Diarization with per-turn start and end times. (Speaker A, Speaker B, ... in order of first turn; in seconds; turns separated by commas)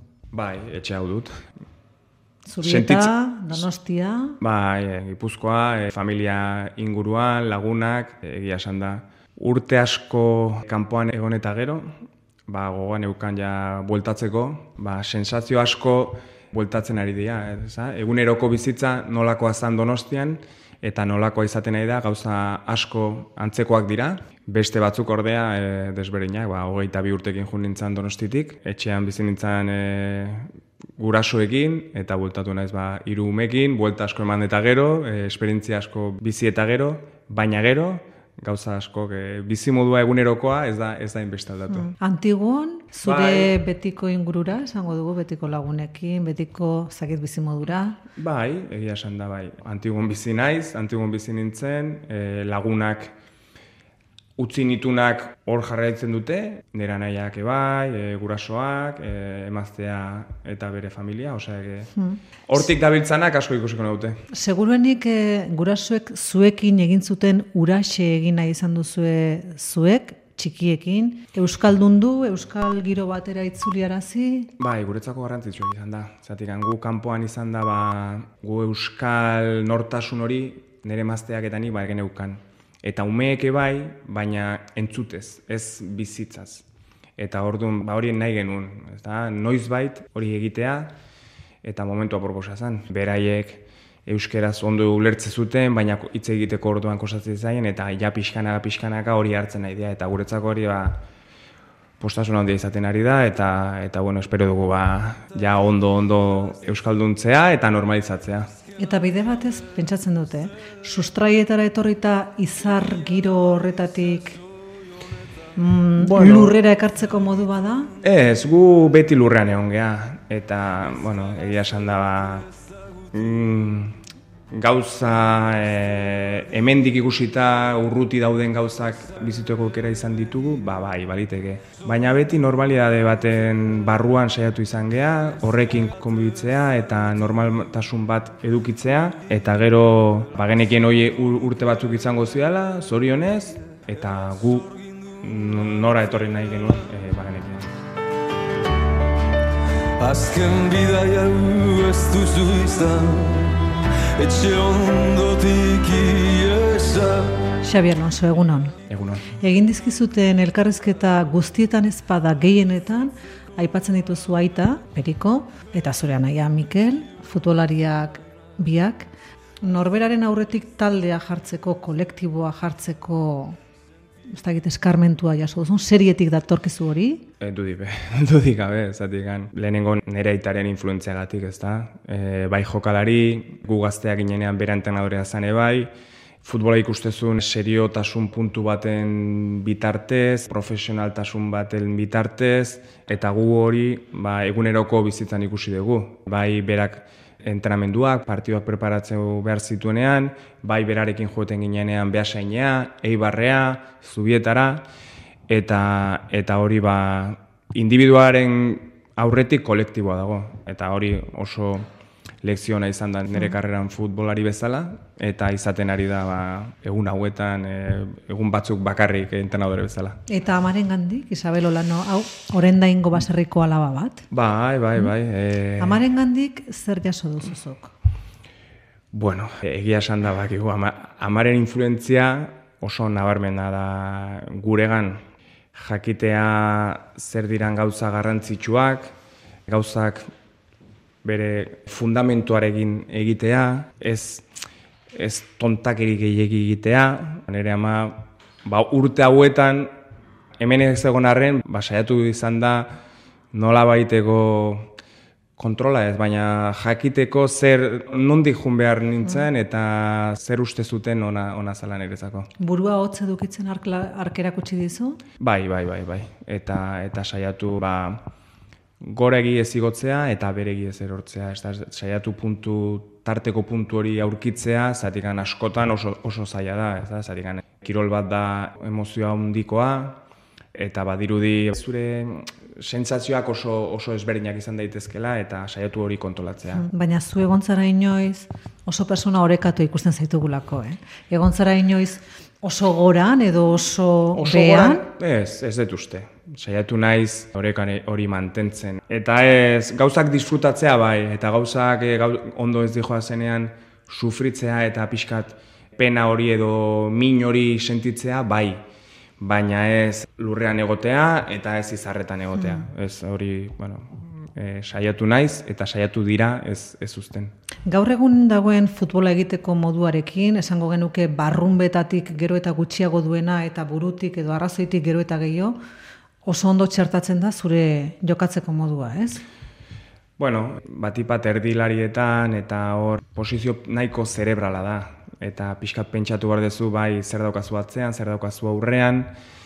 Speaker A: 0.3-1.4, Speaker B: 2.5-4.4, Speaker A: 2.6-3.1, Speaker A: 4.4-11.9, Speaker A: 12.5-41.9, Speaker B: 41.8-48.0, Speaker A: 43.0-43.5, Speaker A: 48.2-53.1, Speaker A: 54.4-61.9, Speaker A: 62.5-64.2, Speaker B: 64.3-74.5, Speaker A: 74.6-86.7, Speaker A: 87.2-91.0, Speaker A: 91.6-101.0, Speaker A: 102.0-108.5, Speaker B: 108.8-114.4, Speaker B: 115.6-117.9, Speaker A: 116.0-116.6, Speaker A: 118.0-122.5, Speaker A: 123.1-124.0, Speaker A: 124.5-147.7, Speaker C: 150.0-157.5, Speaker B: 157.6-158.8, Speaker A: 158.9-159.3, Speaker B: 159.4-169.1, Speaker B: 169.6-173.6, Speaker B: 174.3-177.3, Speaker A: 177.4-185.9, Speaker A: 186.4-204.9, Speaker A: 205.5-211.9, Speaker A: 212.4-220.2, Speaker B: 220.3-224.2, Speaker A: 224.3-226.0, Speaker B: 225.8-227.9, Speaker A: 229.1-235.2, Speaker A: 235.7-239.1, Speaker A: 239.7-240.3, Speaker A: 241.2-244.5, Speaker A: 245.1-249.9, Speaker A: 250.6-253.0, Speaker A: 253.5-254.9, Speaker A: 255.6-262.5, Speaker B: 262.6-265.2, Speaker A: 265.4-268.2, Speaker A: 269.0-280.2, Speaker A: 280.7-286.9, Speaker B: 286.7-295.1, Speaker A: 294.4-308.8, Speaker A: 309.4-317.5, Speaker B: 317.9-325.8, Speaker B: 326.4-329.4, Speaker A: 330.4-339.4